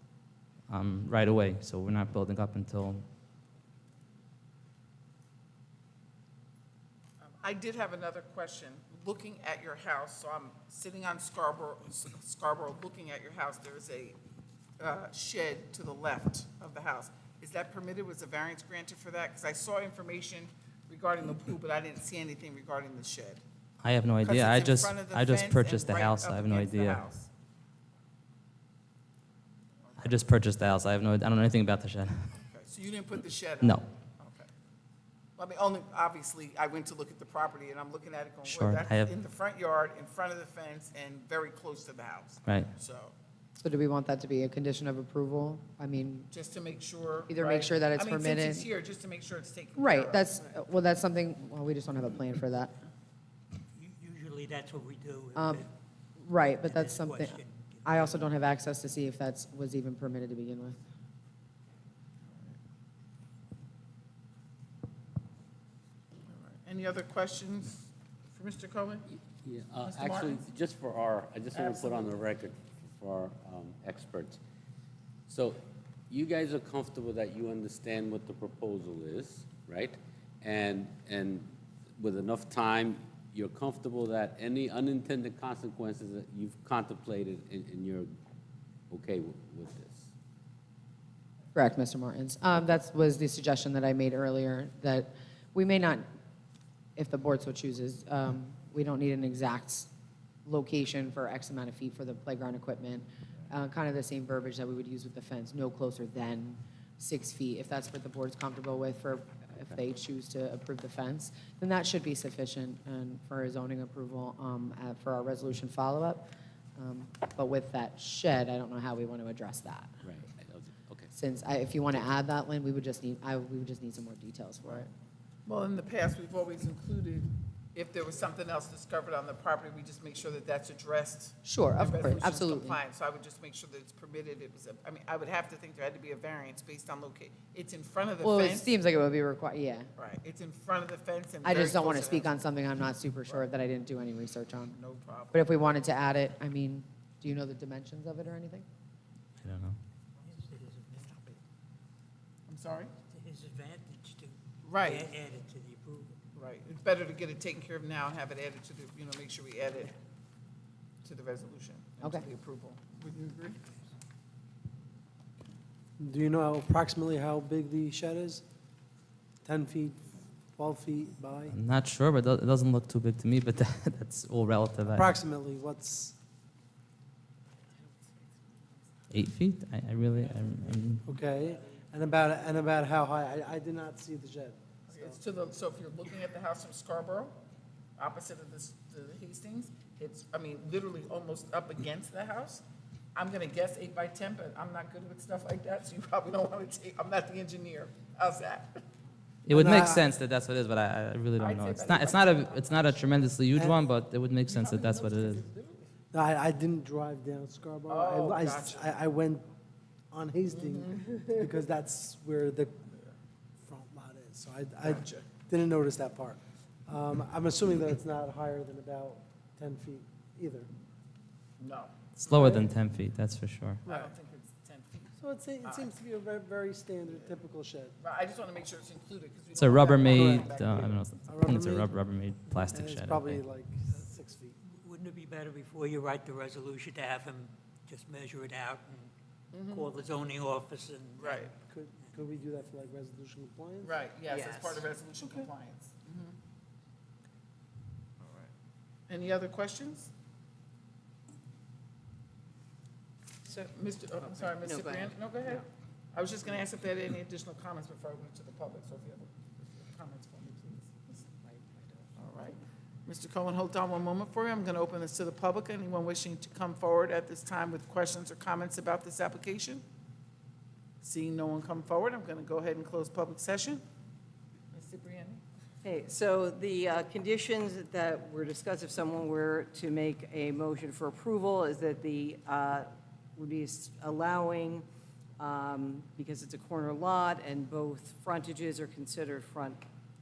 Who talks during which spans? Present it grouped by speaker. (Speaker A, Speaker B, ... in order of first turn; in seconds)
Speaker A: 0.7-3.0, 23.8-27.0, 30.0-32.3, 33.6-33.9, 38.5-39.1, 149.4-149.8, 171.5-175.1, 179.1-181.1, 199.5-205.4, 222.2-223.8, 229.6-233.4
Speaker B: 7.4-14.2, 14.8-23.4, 24.2-27.3, 29.9-30.2, 32.5-34.5, 35.4-43.1, 46.3-50.4, 62.3-62.6, 66.3-69.0, 69.9-70.4, 71.5-72.2, 125.5-138.7, 140.0-142.4, 144.7-145.4, 152.5-152.9, 154.6-155.1, 156.3-160.0, 161.0-163.6, 184.9-187.4, 188.0-192.6, 193.2-198.8, 201.4-203.2, 204.5-205.7, 207.9-208.9, 214.8-215.3, 221.6-221.9, 223.9-225.9, 228.0-230.7, 239.5-239.9, 241.2-241.5, 243.8-246.3, 248.2-248.5, 249.1-250.1, 253.5-261.0, 262.2-269.8, 271.0-273.8, 274.7-275.4
Speaker C: 43.6-46.3, 47.3-48.7, 49.8-52.8, 55.4-60.8, 91.5-96.1, 97.0-99.9, 100.5-116.3, 116.8-120.0, 121.1-124.9, 131.4-132.8, 138.2-139.9, 141.4-144.8, 145.3-148.7
Speaker D: 53.7-55.7, 56.6-58.3, 150.3-151.4, 153.1-156.2, 234.7-239.1, 239.7-241.5
Speaker E: 69.4-74.4, 75.3-88.2, 88.9-90.1, 120.0-121.1
Speaker F: 166.0-168.4, 169.4-171.6, 174.9-176.2, 181.1-185.2, 199.5-200.0, 203.5-203.8, 206.1-209.5, 210.1-212.9, 213.6-220.7, 223.9-224.1, 225.2-227.9, 230.1-232.0, 232.5-234.6, 241.6-243.9
Speaker G: 244.3-244.8, 254.6-255.6, 275.8-284.9, 285.4-289.8